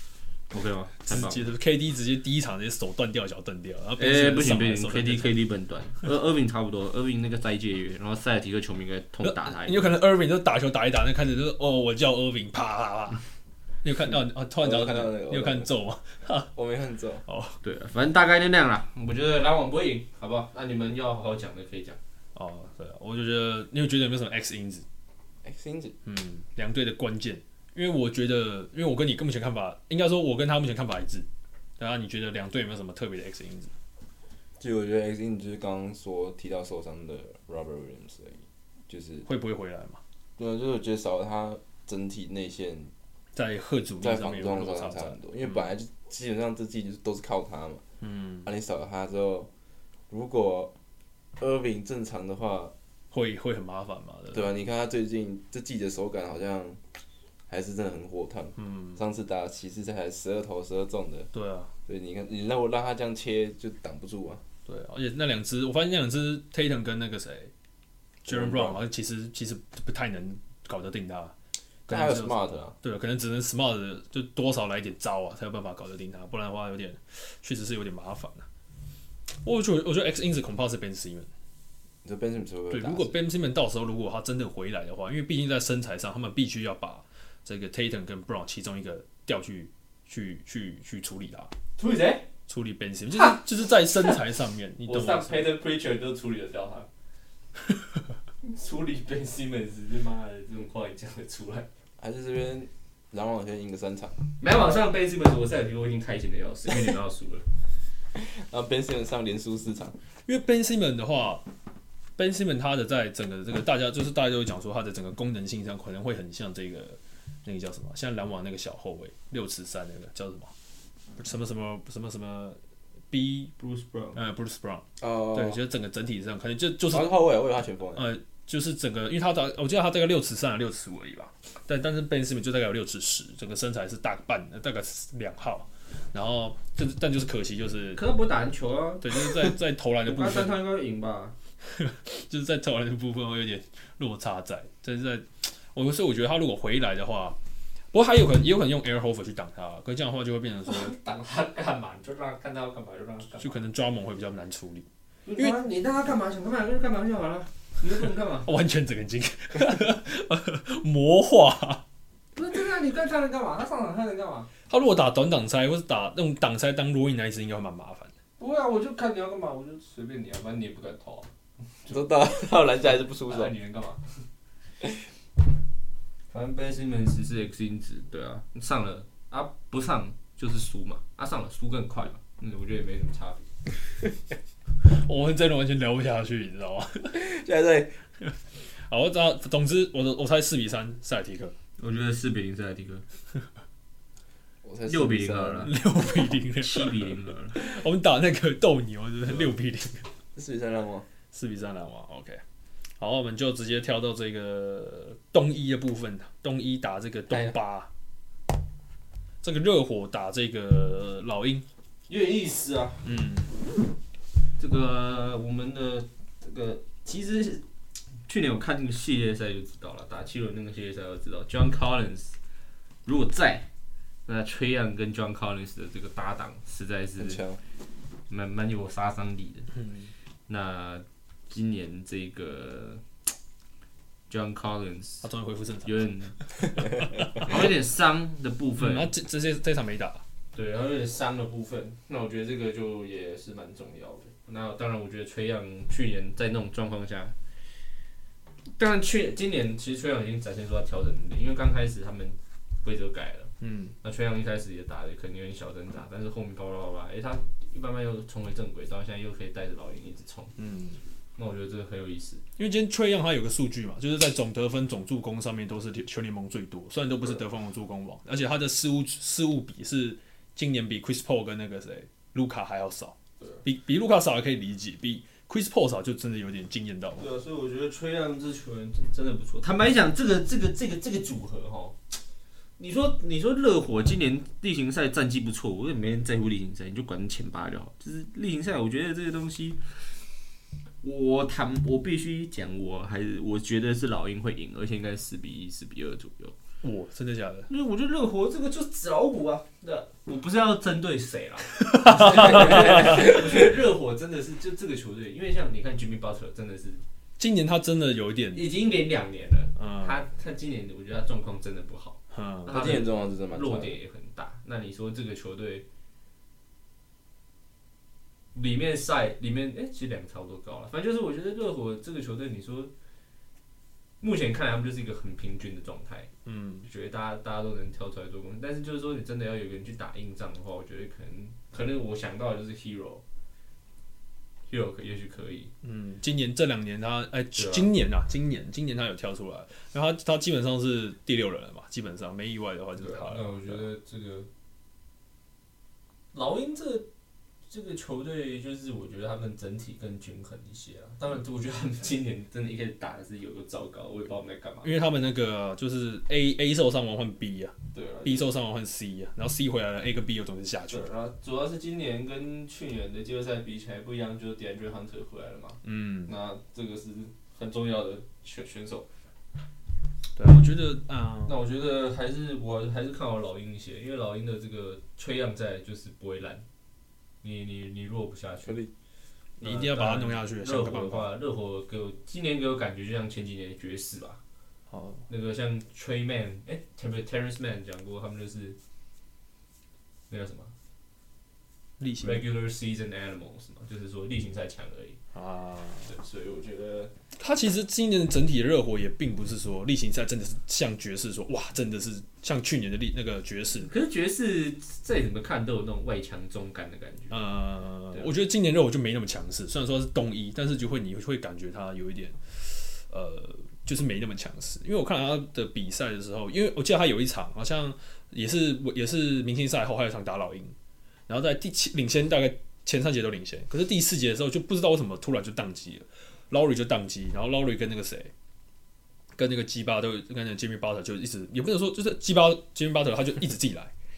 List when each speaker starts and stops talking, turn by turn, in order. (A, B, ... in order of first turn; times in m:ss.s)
0:00.5-0:01.5 A
0:01.0-0:05.3 B
0:04.0-0:09.9 A
0:09.2-0:13.2 B
0:13.8-0:16.5 B
0:14.6-0:15.7 C
0:16.5-0:17.2 C
0:17.2-0:17.6 B
0:17.6-0:22.0 A
0:22.3-0:24.8 B
0:25.4-0:26.0 C
0:26.0-0:31.3 B
0:31.8-0:33.7 B
0:34.6-0:39.3 C
0:39.2-0:40.0 B
0:40.4-0:42.9 C
0:43.3-0:45.6 B
0:44.0-0:47.8 C
0:48.0-0:48.5 B
0:48.4-0:49.5 C
0:50.1-0:50.7 C
0:51.4-0:52.7 C
0:53.1-0:54.5 B
0:54.3-0:56.8 C
0:57.5-1:01.3 C
0:58.6-0:59.0 B
1:01.3-1:01.7 B
1:01.9-1:04.4 C
1:04.6-1:07.5 B
1:08.2-1:08.8 C
1:08.2-1:11.3 B
1:11.9-1:18.5 B
1:11.9-1:12.7 C
1:19.4-1:21.3 B
1:22.0-1:23.2 C
1:22.7-1:31.5 B
1:31.8-1:32.3 A
1:32.5-1:35.5 B
1:34.9-1:36.9 A
1:38.4-1:41.7 A
1:42.0-1:44.8 C
1:44.4-1:47.4 A
1:48.1-1:50.0 C
1:50.3-1:51.5 B
1:52.2-2:00.5 B
2:01.2-2:02.6 B
2:03.1-2:03.5 B
2:03.6-2:04.2 A
2:04.1-2:07.1 B
2:05.0-2:05.6 C
2:06.9-2:08.1 C
2:07.9-2:18.0 B
2:17.9-2:21.4 A
2:19.0-2:20.6 B
2:21.6-2:27.4 B
2:27.9-2:31.0 B
2:30.6-2:33.6 A
2:33.4-2:34.8 B
2:35.2-2:38.5 A
2:38.4-2:41.8 B
2:42.3-2:44.5 A
2:44.7-2:48.1 B
2:48.4-2:51.3 A
2:51.8-2:52.1 A
2:51.9-2:53.5 C
2:52.8-2:54.0 A
2:56.3-3:03.5 A
3:04.8-3:07.2 B
3:07.1-3:08.0 C
3:08.2-3:11.5 B
3:11.8-3:13.0 A
3:14.6-3:15.7 C
3:14.9-3:15.7 A
3:15.6-3:20.1 B
3:16.6-3:17.6 A
3:20.4-3:21.1 C
3:21.3-3:22.4 B
3:23.0-3:27.9 B
3:29.4-3:31.6 B
3:32.1-3:33.0 A
3:33.0-3:33.5 B
3:34.6-3:37.6 A
3:38.2-3:42.4 A
3:43.0-3:43.7 A
3:44.2-3:47.4 A
3:47.2-3:47.6 C
3:48.3-3:49.7 A
3:49.7-3:50.1 B
3:50.5-3:53.0 A
3:54.3-3:55.3 A
3:55.2-3:57.5 B
3:55.8-3:56.6 A
3:57.3-3:59.1 A
3:58.8-4:00.2 B
4:00.5-4:07.4 A
4:08.8-4:20.5 A
4:13.6-4:13.9 B
4:20.6-4:21.0 B
4:21.4-4:22.4 A
4:22.6-4:37.2 B
4:37.2-4:42.2 A
4:42.8-4:50.2 A
4:51.0-4:56.5 A
4:56.8-4:57.7 B
4:57.7-5:07.0 A
5:01.7-5:03.4 B
5:07.4-5:08.6 B
5:08.5-5:15.9 A
5:09.8-5:10.2 B
5:12.3-5:12.7 B
5:12.7-5:14.0 C
5:18.5-5:22.9 A
5:24.2-5:26.3 A
5:26.4-5:26.9 B
5:26.8-5:33.2 A
5:34.7-5:35.7 A
5:35.8-5:43.9 B
5:37.6-5:37.9 A
5:43.0-5:44.5 A
5:46.3-5:47.1 A
5:47.7-5:54.9 A
5:54.8-6:01.0 B
5:57.9-5:58.5 A
6:00.9-6:09.1 A
6:05.8-6:06.3 B
6:10.4-6:11.6 B
6:11.4-6:16.6 A
6:17.4-6:18.8 A
6:18.6-6:18.9 C
6:19.6-6:24.4 A
6:19.6-6:21.3 B
6:24.9-6:25.3 B
6:25.3-6:28.8 A
6:30.3-6:30.7 A
6:32.0-6:32.4 B
6:32.2-6:35.2 A
6:35.3-6:36.1 B
6:36.0-6:37.1 A
6:37.4-6:43.9 B
6:43.8-6:47.5 A
6:47.3-7:00.7 B
7:01.3-7:08.3 B
7:09.4-7:13.9 B